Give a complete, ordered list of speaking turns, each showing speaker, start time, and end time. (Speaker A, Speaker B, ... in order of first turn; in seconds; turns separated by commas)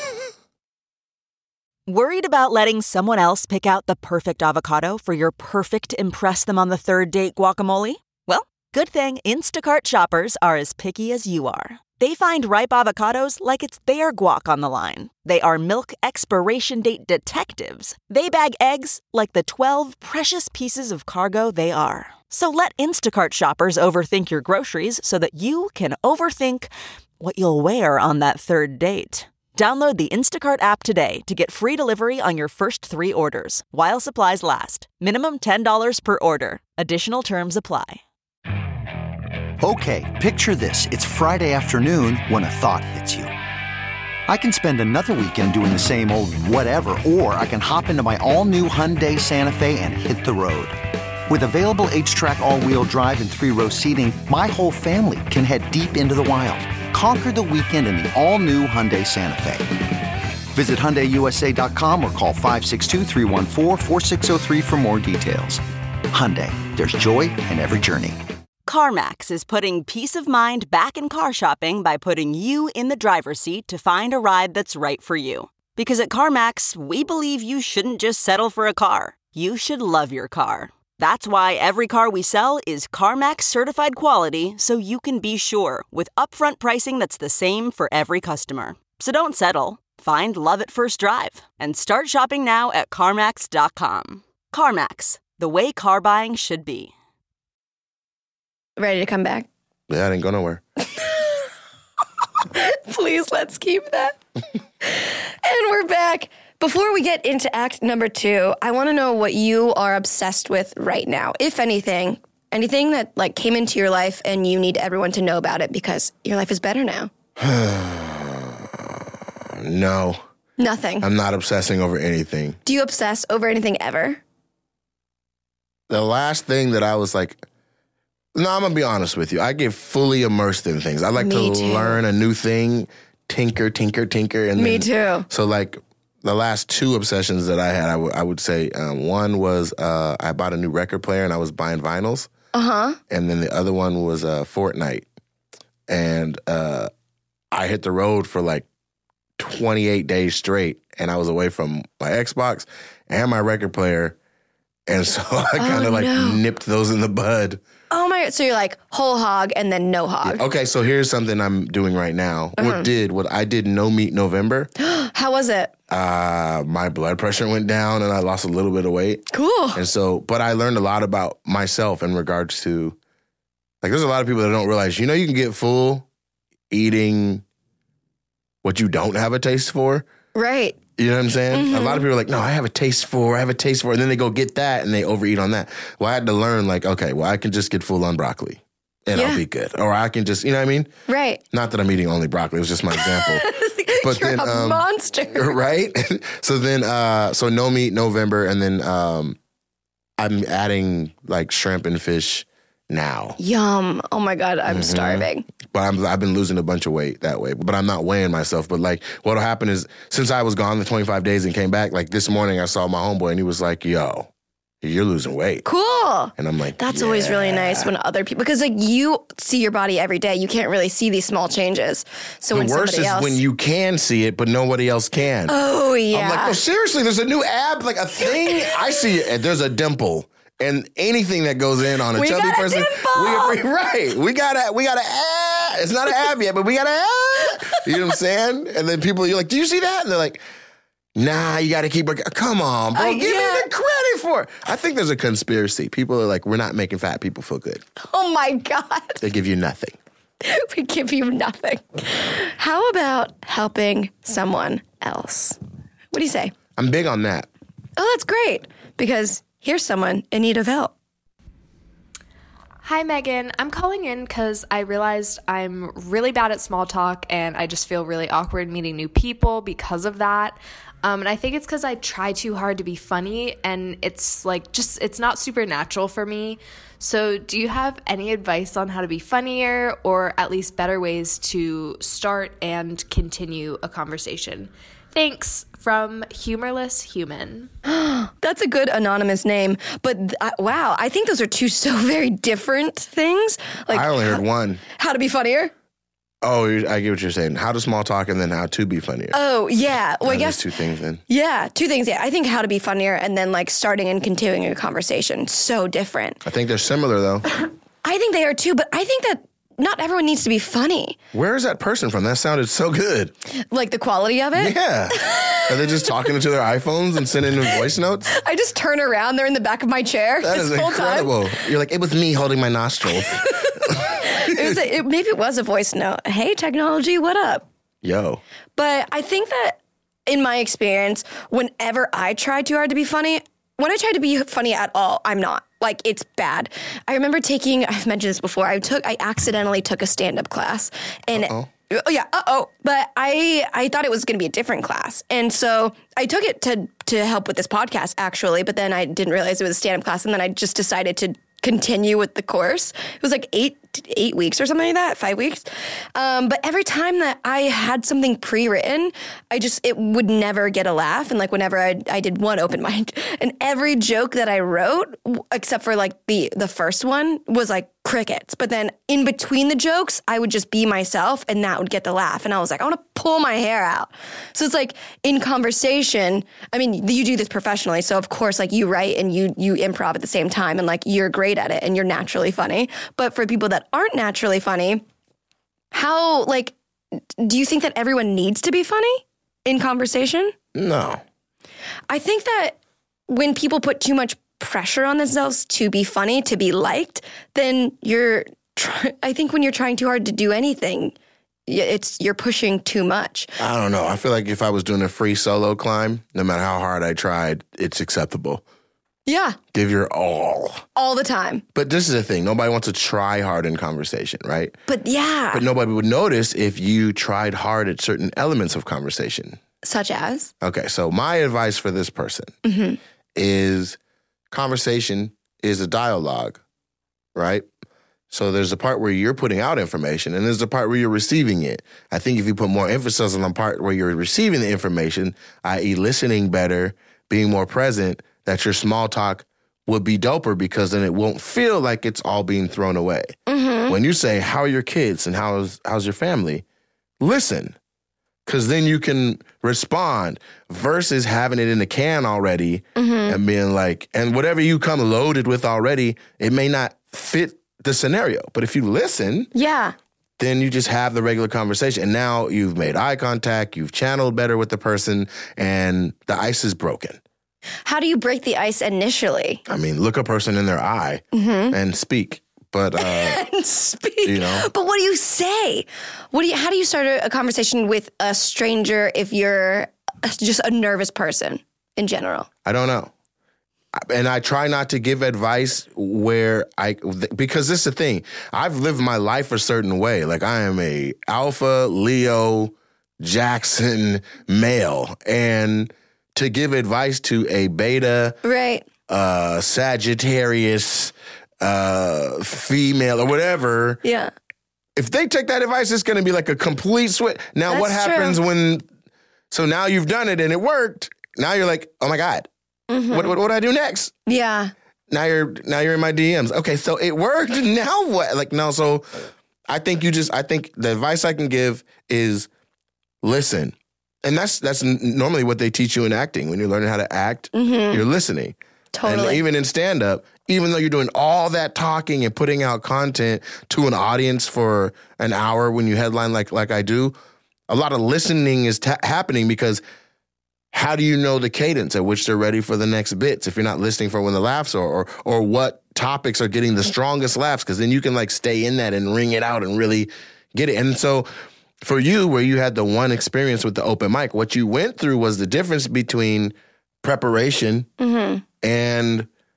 Speaker A: 1.9-38.0, Speaker B: 39.6-43.3, Speaker B: 44.3-59.8, Speaker B: 60.5-68.2, Speaker A: 68.7-96.9, Speaker C: 98.8-99.5, Speaker D: 99.9-100.6, Speaker C: 101.0-101.5, Speaker C: 102.5-104.2, Speaker C: 104.8-117.1, Speaker D: 117.4-120.2, Speaker C: 120.6-121.1, Speaker D: 121.0-122.6, Speaker C: 122.7-124.2, Speaker D: 125.9-127.4, Speaker D: 128.3-142.3, Speaker C: 131.2-132.0, Speaker C: 134.6-135.3, Speaker C: 142.5-143.0, Speaker D: 143.1-145.1, Speaker D: 145.9-146.9, Speaker D: 147.5-148.7, Speaker D: 149.4-154.2, Speaker D: 154.9-157.6, Speaker C: 155.6-156.4, Speaker C: 157.9-160.4, Speaker D: 160.2-164.7, Speaker C: 162.6-162.9, Speaker C: 164.8-165.7, Speaker D: 165.9-173.0, Speaker C: 169.3-169.8, Speaker D: 173.8-176.1, Speaker D: 176.7-177.4, Speaker D: 178.6-180.1, Speaker C: 180.3-180.8, Speaker D: 181.0-190.9, Speaker C: 181.5-182.0, Speaker C: 189.1-189.4, Speaker C: 191.1-191.4, Speaker D: 191.5-194.8, Speaker C: 192.9-195.6, Speaker D: 195.3-199.4, Speaker D: 200.2-203.4, Speaker C: 203.4-205.4, Speaker D: 204.7-214.3, Speaker D: 214.8-215.6, Speaker C: 215.7-223.4, Speaker D: 216.4-217.9, Speaker D: 222.5-225.6, Speaker C: 225.5-226.6, Speaker D: 226.1-240.4, Speaker C: 228.2-228.8, Speaker C: 232.2-233.6, Speaker D: 241.2-247.8, Speaker C: 242.9-243.7, Speaker C: 248.0-249.2, Speaker D: 249.2-250.0, Speaker C: 250.4-255.6, Speaker C: 256.1-256.5, Speaker D: 256.8-257.5, Speaker C: 258.0-260.9, Speaker E: 262.8-287.7, Speaker C: 287.9-294.4, Speaker D: 293.9-294.8, Speaker C: 295.0-295.7, Speaker D: 296.4-299.4, Speaker C: 299.3-300.6, Speaker D: 300.2-301.2, Speaker C: 301.3-306.4, Speaker D: 306.4-307.4, Speaker C: 308.0-311.2, Speaker D: 311.3-313.3, Speaker C: 313.6-315.9, Speaker D: 314.6-318.3, Speaker C: 318.3-321.4, Speaker D: 320.4-324.8, Speaker C: 323.4-327.7, Speaker D: 328.0-328.4, Speaker C: 328.8-385.0, Speaker D: 341.3-341.7, Speaker C: 385.9-386.8, Speaker C: 387.4-390.5, Speaker D: 390.8-391.2, Speaker C: 392.1-392.8, Speaker C: 393.3-401.1, Speaker C: 401.7-403.5, Speaker D: 403.6-408.6, Speaker C: 409.3-409.6, Speaker D: 409.7-410.8, Speaker C: 410.9-411.6, Speaker D: 411.8-414.8, Speaker C: 414.9-415.6, Speaker D: 415.5-419.6, Speaker C: 419.8-420.5, Speaker D: 420.6-422.5, Speaker C: 422.6-423.0, Speaker D: 423.4-424.0, Speaker D: 424.5-426.6, Speaker D: 427.4-427.7, Speaker D: 428.3-446.6, Speaker C: 443.5-444.0, Speaker D: 447.2-447.8, Speaker D: 448.5-459.5, Speaker C: 453.0-453.4, Speaker C: 459.5-459.9, Speaker D: 460.4-467.2, Speaker C: 467.9-469.6, Speaker D: 469.7-473.4, Speaker C: 471.3-471.8, Speaker C: 473.0-482.5, Speaker D: 474.2-474.7, Speaker D: 482.6-483.1, Speaker D: 484.0-498.4, Speaker C: 498.4-498.9, Speaker D: 499.1-504.0, Speaker C: 504.0-504.3, Speaker D: 505.0-508.9, Speaker C: 507.7-508.4, Speaker D: 509.5-512.5, Speaker C: 512.9-513.4, Speaker D: 513.1-514.1, Speaker C: 514.3-514.7, Speaker D: 515.1-522.5, Speaker D: 523.2-537.2, Speaker C: 527.5-528.0, Speaker C: 528.9-529.4, Speaker D: 537.7-539.8, Speaker D: 540.7-551.3, Speaker D: 551.8-557.9, Speaker C: 558.0-558.4, Speaker D: 558.6-559.3